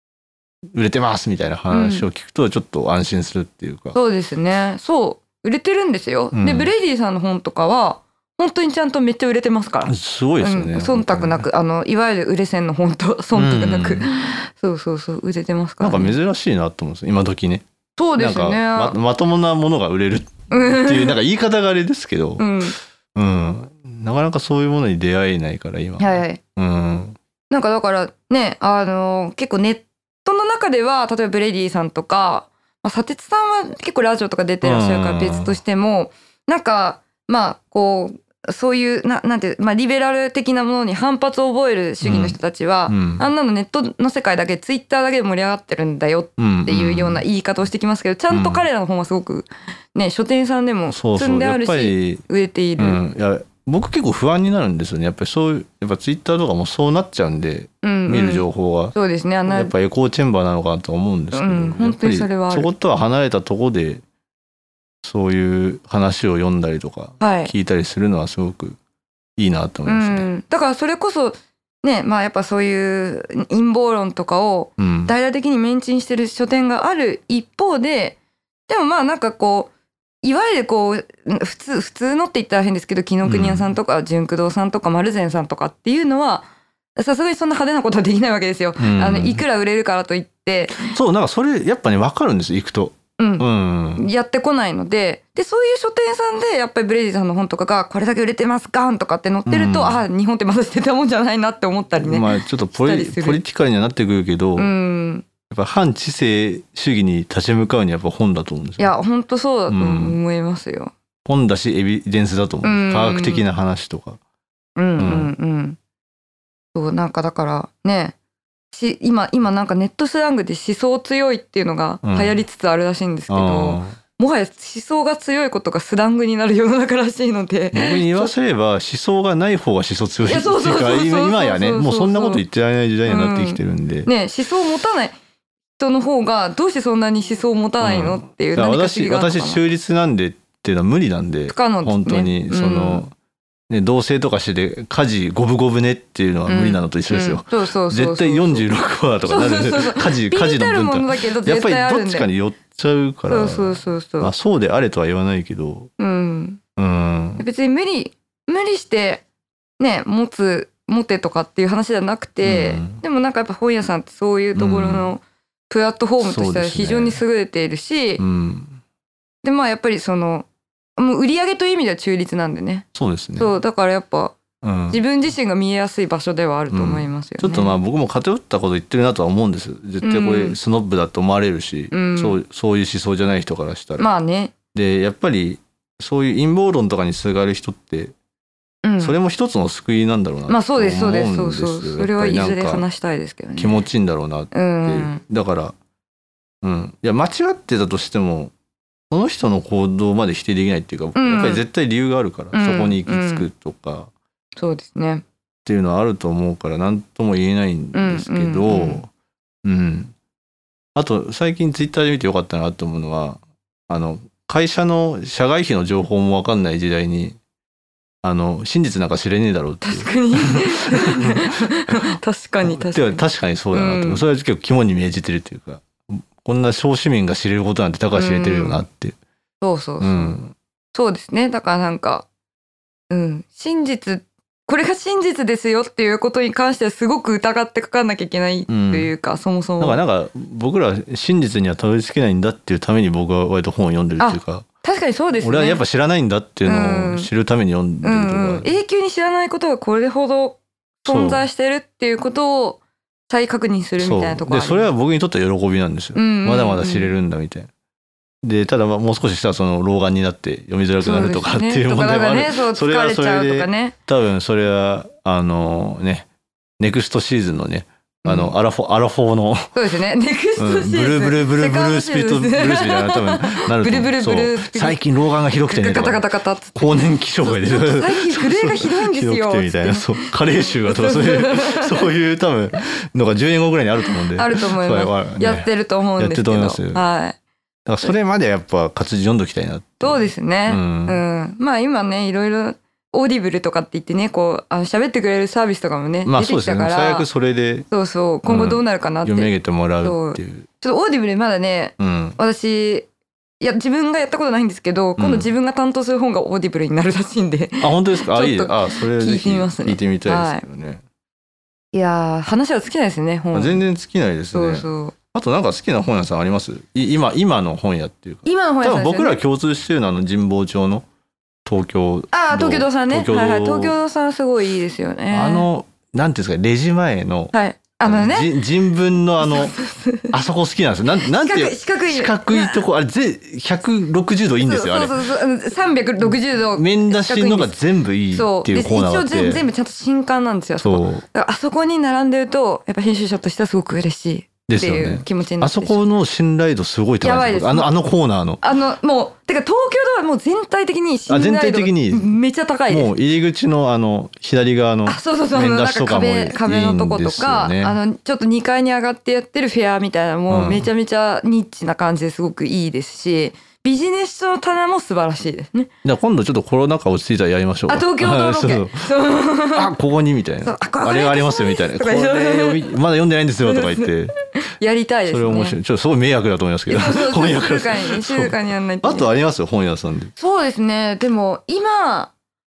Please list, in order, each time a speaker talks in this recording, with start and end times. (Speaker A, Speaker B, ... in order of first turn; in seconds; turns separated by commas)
Speaker A: 0.7-4.0, Speaker B: 1.7-2.0, Speaker B: 3.9-16.1, Speaker A: 6.3-6.7, Speaker A: 9.9-11.4, Speaker A: 13.3-14.1, Speaker A: 15.8-17.6, Speaker B: 18.0-18.9, Speaker A: 18.2-22.5, Speaker B: 20.5-21.2, Speaker B: 22.4-22.8, Speaker A: 23.1-27.2, Speaker B: 26.0-26.4, Speaker B: 27.5-53.0, Speaker A: 34.6-35.6, Speaker A: 42.0-42.4, Speaker A: 42.9-43.2, Speaker A: 46.4-47.2, Speaker A: 48.3-48.6, Speaker A: 50.9-52.2, Speaker A: 52.8-59.0, Speaker B: 57.8-59.7, Speaker A: 59.5-64.0, Speaker B: 61.3-62.7, Speaker A: 65.0-68.8, Speaker B: 67.2-67.5, Speaker A: 69.4-70.3, Speaker B: 69.9-78.2, Speaker A: 74.8-75.1, Speaker B: 78.7-79.7, Speaker B: 80.2-90.9, Speaker A: 83.2-83.7, Speaker A: 88.8-89.4, Speaker A: 90.8-94.0, Speaker B: 93.2-93.4, Speaker B: 94.0-103.4, Speaker A: 99.5-100.0, Speaker A: 101.9-104.7, Speaker B: 104.6-105.2, Speaker A: 105.5-108.9, Speaker B: 108.8-110.9, Speaker A: 109.7-110.2, Speaker A: 111.2-114.2, Speaker B: 112.6-113.4, Speaker B: 114.8-115.8, Speaker A: 115.0-115.3, Speaker B: 116.7-118.1, Speaker B: 118.7-128.3, Speaker A: 122.0-122.4, Speaker A: 123.3-124.0, Speaker A: 127.7-134.1, Speaker B: 130.2-132.4, Speaker B: 133.0-135.1, Speaker B: 135.8-139.6, Speaker A: 137.8-143.1, Speaker B: 141.5-143.0, Speaker A: 143.7-155.9, Speaker B: 146.5-148.7, Speaker B: 149.2-152.3, Speaker B: 153.3-154.3, Speaker B: 156.0-156.6, Speaker A: 156.8-157.4, Speaker B: 157.4-159.2, Speaker B: 159.8-168.2, Speaker A: 162.4-163.0, Speaker A: 164.6-165.1, Speaker A: 166.2-167.2, Speaker A: 168.2-168.8, Speaker B: 169.4-174.3, Speaker A: 172.9-173.5, Speaker A: 174.6-175.0, Speaker B: 174.9-177.8, Speaker A: 176.7-184.1, Speaker B: 180.0-180.6, Speaker B: 181.9-182.4, Speaker B: 184.0-184.5, Speaker A: 184.7-188.1, Speaker B: 188.8-189.2, Speaker A: 189.0-192.8, Speaker B: 190.5-193.8, Speaker A: 193.6-195.7, Speaker B: 194.5-195.2, Speaker A: 196.6-198.5, Speaker A: 199.1-204.1, Speaker B: 201.1-201.6, Speaker B: 202.5-203.5, Speaker B: 204.6-205.2, Speaker A: 205.6-209.1, Speaker B: 207.9-209.0, Speaker A: 209.6-210.1, Speaker A: 210.9-217.4, Speaker A: 218.2-229.2, Speaker B: 219.8-224.2, Speaker B: 228.1-228.8, Speaker B: 229.6-230.4, Speaker A: 230.0-230.5, Speaker B: 230.9-232.2, Speaker B: 233.1-240.0, Speaker A: 238.7-239.1, Speaker A: 239.8-244.7, Speaker B: 244.2-245.8, Speaker A: 245.4-248.7, Speaker B: 246.7-247.3, Speaker B: 248.0-254.9, Speaker A: 251.1-251.4, Speaker A: 254.0-257.7, Speaker B: 256.1-257.1, Speaker A: 258.4-266.2, Speaker B: 261.0-263.9, Speaker A: 266.8-269.8, Speaker B: 268.2-268.5, Speaker B: 269.7-280.3, Speaker A: 270.6-276.2, Speaker A: 276.8-287.0, Speaker B: 280.8-282.1, Speaker B: 284.3-287.4, Speaker A: 287.9-291.2, Speaker B: 290.0-297.3, Speaker A: 296.2-297.9, Speaker B: 297.9-303.1, Speaker A: 298.4-300.7, Speaker A: 302.0-302.4, Speaker B: 303.6-310.6, Speaker A: 305.2-305.5, Speaker A: 307.8-311.0, Speaker B: 311.9-313.8, Speaker A: 313.5-321.0, Speaker B: 314.5-315.1, Speaker B: 318.4-319.4, Speaker A: 321.6-324.0, Speaker B: 322.3-325.7, Speaker A: 325.3-327.5, Speaker B: 327.5-328.6, Speaker A: 328.1-329.8, Speaker B: 329.4-330.3, Speaker A: 330.3-335.1, Speaker B: 331.2-332.8, Speaker B: 334.6-337.8, Speaker A: 336.2-339.6, Speaker B: 338.3-346.0, Speaker A: 340.8-341.2, Speaker A: 344.7-348.6, Speaker B: 347.2-347.9, Speaker B: 348.6-353.1, Speaker A: 351.3-352.3, Speaker A: 352.9-358.0, Speaker B: 355.1-365.9, Speaker A: 360.5-360.9, Speaker A: 366.0-369.1, Speaker B: 367.9-369.9, Speaker A: 369.7-374.3, Speaker B: 370.6-372.9, Speaker B: 373.6-375.8, Speaker A: 375.3-380.3, Speaker B: 376.9-379.3, Speaker B: 380.4-382.3